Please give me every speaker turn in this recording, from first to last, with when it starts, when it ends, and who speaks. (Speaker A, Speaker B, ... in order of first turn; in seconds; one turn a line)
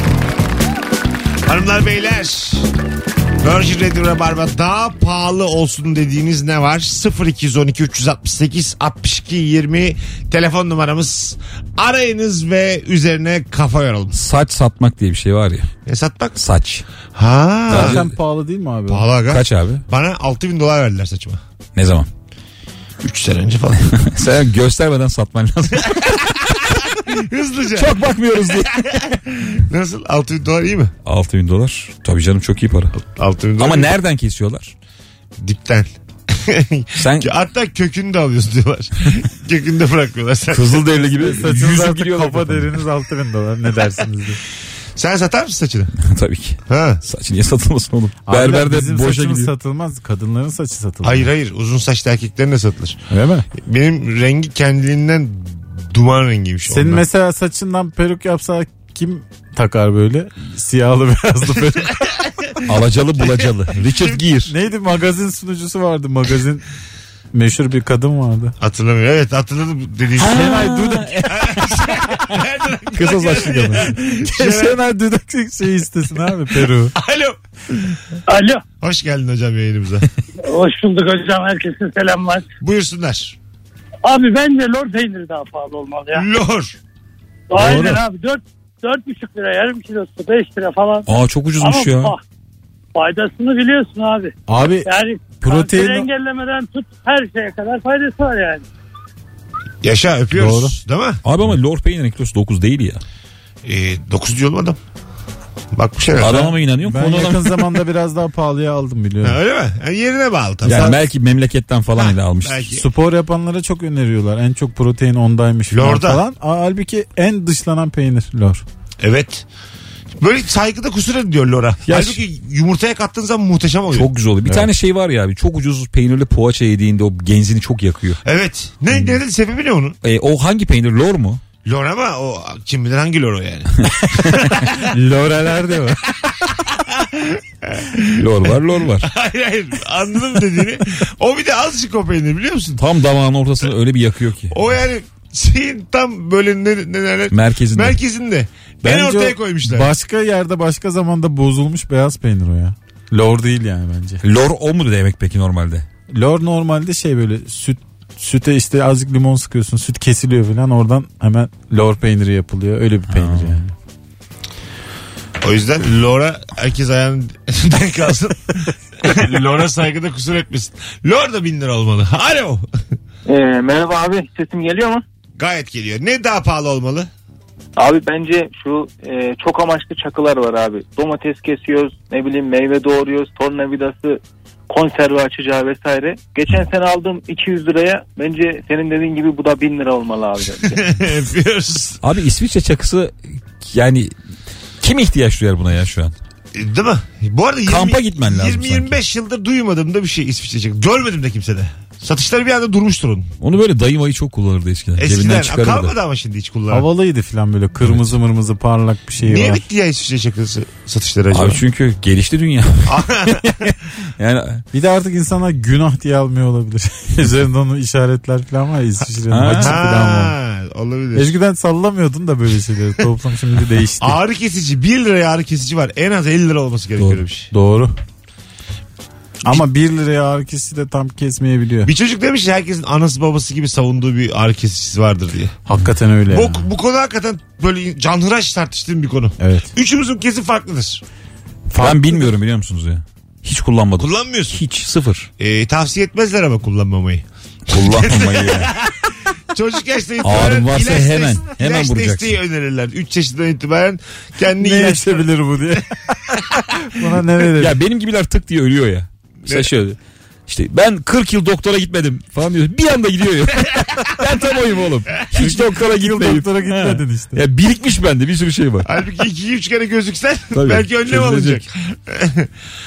Speaker A: 1.4-2.7
Speaker A: 3.4-14.2
Speaker B: 14.1-15.7
Speaker A: 15.8-16.4
Speaker B: 16.4-16.8
Speaker A: 17.1-18.0
Speaker B: 17.7-18.1
Speaker C: 17.7-19.1
Speaker A: 18.9-21.4
Speaker B: 19.3-19.8
Speaker B: 21.8-22.1
Speaker A: 23.0-23.9
Speaker B: 23.9-26.8
Speaker A: 27.1-28.0
Speaker B: 27.7-29.0
Speaker A: 28.5-30.9
Speaker B: 31.0-33.0
Speaker A: 33.0-33.9
Speaker B: 33.6-34.7
Speaker A: 35.4-40.8
Speaker B: 37.0-37.3
Speaker B: 40.5-42.7
Speaker C: 41.0-44.4
Speaker A: 45.0-45.9
Speaker B: 46.0-49.5
Speaker A: 46.7-47.0
Speaker C: 48.2-51.3
Speaker A: 51.0-53.0
Speaker C: 53.1-53.5
Speaker A: 53.5-57.0
Speaker C: 56.7-62.0
Speaker B: 62.6-64.5
Speaker A: 63.2-64.2
Speaker C: 64.5-66.7
Speaker C: 67.3-68.5
Speaker A: 68.6-70.5
Speaker B: 70.2-72.2
Speaker C: 70.2-71.3
Speaker A: 71.3-74.8
Speaker B: 72.9-73.9
Speaker C: 74.2-76.9
Speaker A: 76.9-78.0
Speaker D: 78.3-78.6
Speaker A: 78.8-80.1
Speaker D: 80.4-82.5
Speaker A: 82.6-83.4
Speaker D: 84.0-86.2
Speaker A: 86.1-86.8
Speaker D: 87.5-91.1
Speaker C: 87.5-88.0
Speaker B: 91.1-92.1
Speaker D: 91.6-92.2
Speaker D: 92.9-94.3
Speaker C: 94.5-94.9
Speaker D: 94.8-98.6
Speaker C: 95.4-96.1
Speaker A: 99.8-101.2
Speaker C: 100.3-100.8
Speaker B: 101.2-103.0
Speaker A: 103.6-104.8
Speaker A: 105.7-106.5
Speaker B: 106.2-107.8
Speaker C: 106.8-109.4
Speaker A: 109.2-111.0
Speaker B: 110.7-112.8
Speaker C: 110.7-111.0
Speaker A: 111.9-112.8
Speaker C: 112.8-118.6
Speaker A: 115.7-116.2
Speaker A: 119.0-119.5
Speaker A: 120.2-124.1
Speaker B: 121.8-122.2
Speaker B: 123.9-128.2
Speaker A: 128.2-130.0
Speaker B: 130.0-131.4
Speaker A: 131.6-134.6
Speaker C: 134.3-136.2
Speaker A: 136.7-138.3
Speaker B: 138.1-139.1
Speaker A: 139.0-142.8
Speaker B: 142.8-144.6
Speaker A: 144.5-149.9
Speaker B: 147.3-148.0
Speaker C: 148.8-154.2
Speaker B: 154.2-155.8
Speaker C: 156.1-163.7
Speaker B: 163.1-163.5
Speaker A: 165.4-172.6
Speaker E: 173.3-175.0
Speaker A: 175.4-177.1
Speaker E: 177.8-190.9
Speaker A: 190.7-192.0
Speaker B: 192.0-194.1
Speaker B: 194.8-196.1
Speaker A: 196.5-203.3
Speaker B: 197.7-199.0
Speaker B: 203.4-205.9
Speaker A: 205.0-206.8
Speaker C: 206.7-209.6
Speaker B: 207.8-208.1
Speaker A: 209.2-211.6
Speaker B: 211.3-214.6
Speaker A: 212.9-213.6
Speaker C: 214.7-220.3
Speaker B: 219.3-219.8
Speaker A: 219.6-221.3
Speaker C: 221.1-224.2
Speaker A: 224.0-227.5
Speaker C: 227.5-227.9
Speaker C: 229.4-231.9
Speaker A: 231.8-235.6
Speaker C: 235.7-236.7
Speaker A: 236.3-241.0
Speaker C: 239.4-239.7
Speaker C: 241.7-242.3
Speaker B: 241.8-245.3
Speaker A: 244.0-244.6
Speaker A: 245.4-255.2
Speaker B: 247.7-248.7
Speaker B: 250.2-252.4
Speaker C: 254.6-257.8
Speaker B: 257.6-268.9
Speaker C: 265.4-267.4
Speaker A: 268.8-272.5
Speaker B: 270.5-271.6